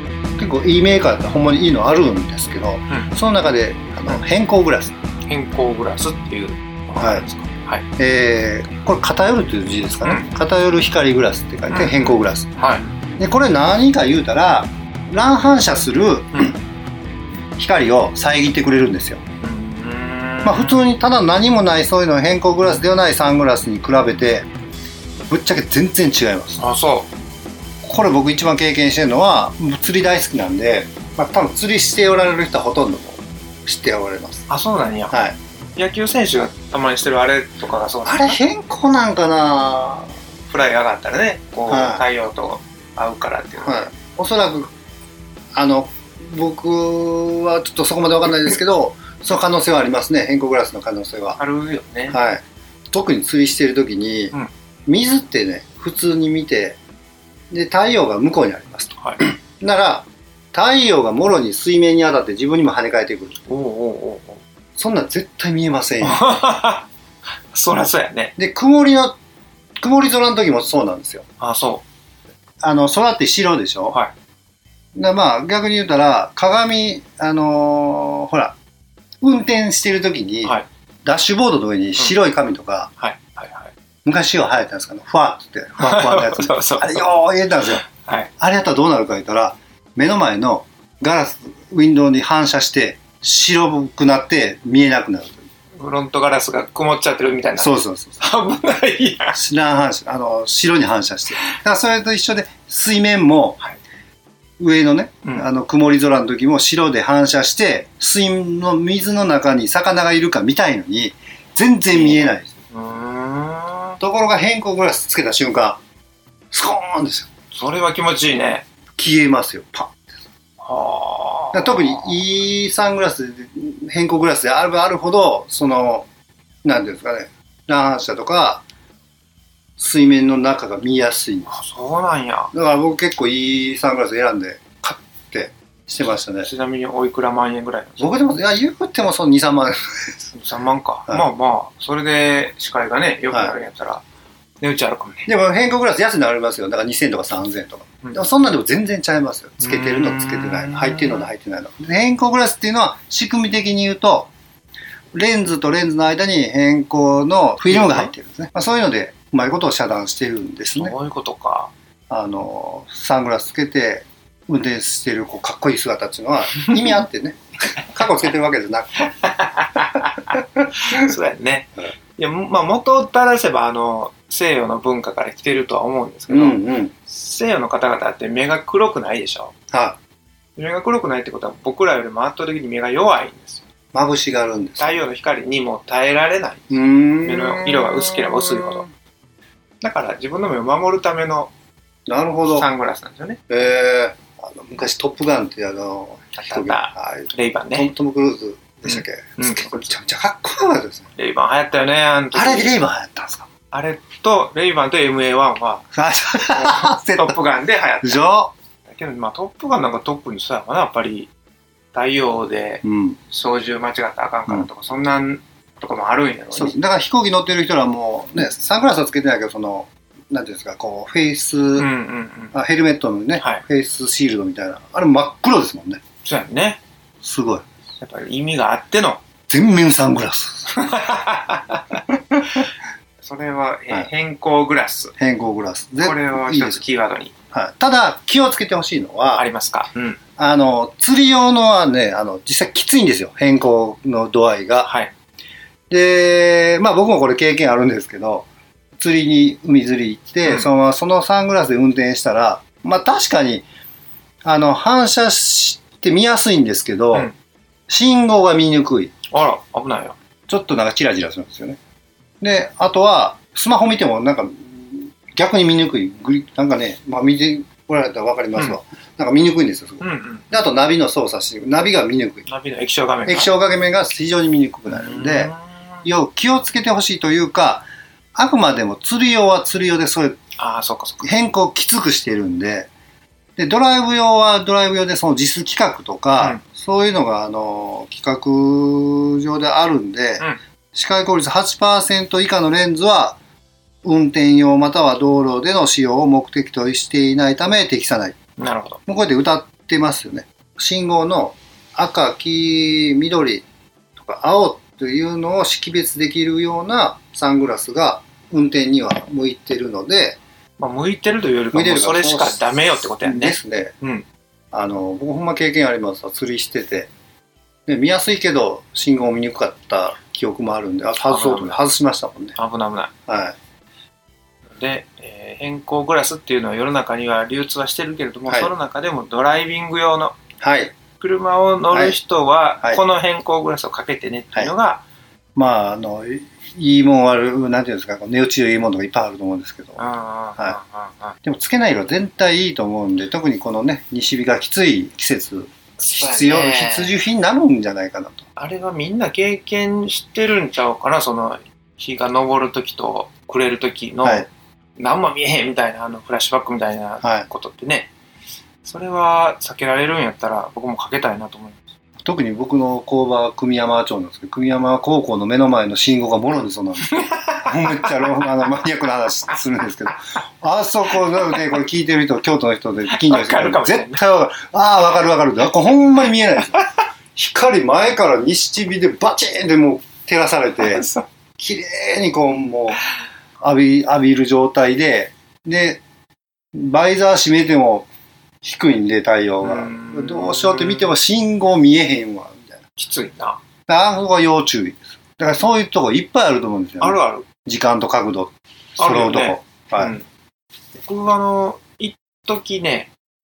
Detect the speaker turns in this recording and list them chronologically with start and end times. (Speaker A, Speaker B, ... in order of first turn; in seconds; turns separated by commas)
Speaker A: 0.4-4.9, Speaker B: 5.3-7.9, Speaker A: 7.0-7.2, Speaker A: 8.0-12.5, Speaker B: 10.0-10.3, Speaker B: 11.7-12.9, Speaker A: 13.2-16.6, Speaker A: 17.6-19.2, Speaker B: 19.4-20.8, Speaker A: 20.4-24.5, Speaker A: 25.3-26.6, Speaker B: 26.6-27.1, Speaker A: 27.8-34.5, Speaker B: 34.5-35.2, Speaker A: 35.1-35.4, Speaker B: 35.8-38.4, Speaker A: 38.0-40.1, Speaker B: 40.5-43.9, Speaker A: 41.7-42.0, Speaker A: 43.6-44.7, Speaker A: 45.5-51.4, Speaker B: 51.4-52.2, Speaker A: 52.1-54.3, Speaker A: 54.9-56.8, Speaker A: 57.5-63.4, Speaker B: 63.5-64.4, Speaker A: 64.8-66.3, Speaker B: 66.0-66.9, Speaker B: 67.5-68.3, Speaker A: 68.4-69.2, Speaker A: 69.8-71.2, Speaker B: 71.4-71.8, Speaker A: 72.6-74.0, Speaker A: 75.0-78.6, Speaker A: 79.2-82.9, Speaker B: 83.0-83.7, Speaker A: 84.0-87.8, Speaker B: 85.8-87.1, Speaker B: 87.7-88.3, Speaker A: 88.4-95.4, Speaker B: 95.8-99.4, Speaker A: 97.6-98.2, Speaker A: 99.3-103.6, Speaker A: 104.6-112.5, Speaker B: 111.9-114.0, Speaker A: 114.0-115.8, Speaker A: 116.5-117.3, Speaker B: 117.5-118.7, Speaker A: 119.0-120.1, Speaker B: 120.6-122.2, Speaker A: 121.5-126.1, Speaker A: 126.6-128.7, Speaker A: 129.8-131.6, Speaker B: 131.5-132.5, Speaker A: 132.5-136.5, Speaker B: 136.4-138.2, Speaker A: 138.0-140.2, Speaker B: 140.3-144.0, Speaker B: 144.6-145.3, Speaker A: 145.3-154.3, Speaker B: 149.6-151.3, Speaker A: 155.1-160.9, Speaker B: 157.7-158.1, Speaker B: 160.8-161.7, Speaker A: 162.1-169.0, Speaker B: 169.1-179.5, Speaker A: 176.3-176.9, Speaker A: 179.7-180.0, Speaker B: 180.6-183.7, Speaker A: 183.9-185.0, Speaker B: 184.8-188.9, Speaker A: 186.7-188.9, Speaker B: 189.8-191.5, Speaker A: 192.1-192.7, Speaker B: 192.5-193.4, Speaker A: 193.5-201.1, Speaker B: 196.3-197.9, Speaker B: 198.8-199.9, Speaker B: 201.2-202.8, Speaker A: 202.3-203.5, Speaker B: 203.7-205.9, Speaker A: 205.9-207.4, Speaker B: 206.4-208.2, Speaker A: 208.0-208.5, Speaker B: 208.9-211.3, Speaker B: 211.9-216.8, Speaker A: 212.8-213.2, Speaker A: 216.5-221.9, Speaker B: 221.8-222.6, Speaker A: 222.5-226.0, Speaker B: 223.4-223.6, Speaker B: 226.2-226.8, Speaker A: 227.2-227.6, Speaker B: 228.0-229.2, Speaker A: 229.5-230.7, Speaker B: 230.7-232.6, Speaker B: 233.2-235.1, Speaker A: 235.2-236.8, Speaker B: 236.0-237.3, Speaker A: 237.5-239.5, Speaker B: 239.3-240.2, Speaker A: 240.4-244.9, Speaker B: 244.8-245.1, Speaker A: 245.9-248.5, Speaker A: 249.0-253.7, Speaker B: 250.4-250.7, Speaker A: 254.4-257.3, Speaker A: 257.9-259.1, Speaker B: 259.3-260.2, Speaker A: 260.5-261.8, Speaker A: 262.4-272.5, Speaker B: 270.0-270.4, Speaker B: 272.5-273.5, Speaker A: 273.3-275.5, Speaker B: 274.9-276.0, Speaker A: 276.1-280.4, Speaker B: 280.6-281.2, Speaker A: 281.2-282.9, Speaker A: 283.6-293.4, Speaker A: 294.0-298.4, Speaker B: 298.6-299.0, Speaker A: 299.1-303.6, Speaker A: 304.2-310.4, Speaker B: 310.8-314.3, Speaker A: 311.7-313.9, Speaker A: 314.7-317.1, Speaker A: 317.9-322.6, Speaker B: 321.3-321.8, Speaker B: 322.6-323.1, Speaker A: 323.3-323.6, Speaker B: 324.8-330.4, Speaker A: 330.6-330.9, Speaker B: 331.2-335.1, Speaker A: 331.9-332.2, Speaker A: 335.6-340.0, Speaker B: 340.0-341.4, Speaker A: 341.4-348.4, Speaker B: 346.0-347.2, Speaker B: 348.6-358.1, Speaker B: 358.8-361.9, Speaker A: 362.2-376.8, Speaker B: 367.1-368.4, Speaker B: 371.5-371.8, Speaker B: 373.1-374.2, Speaker A: 377.4-381.1, Speaker B: 380.8-381.3, Speaker A: 381.6-383.0, Speaker A: 383.6-386.0, Speaker A: 386.8-388.1, Speaker A: 388.6-392.8, Speaker B: 389.6-391.1, Speaker B: 393.0-393.6, Speaker A: 393.9-400.1, Speaker B: 397.0-397.5, Speaker B: 399.0-400.3, Speaker B: 401.0-403.1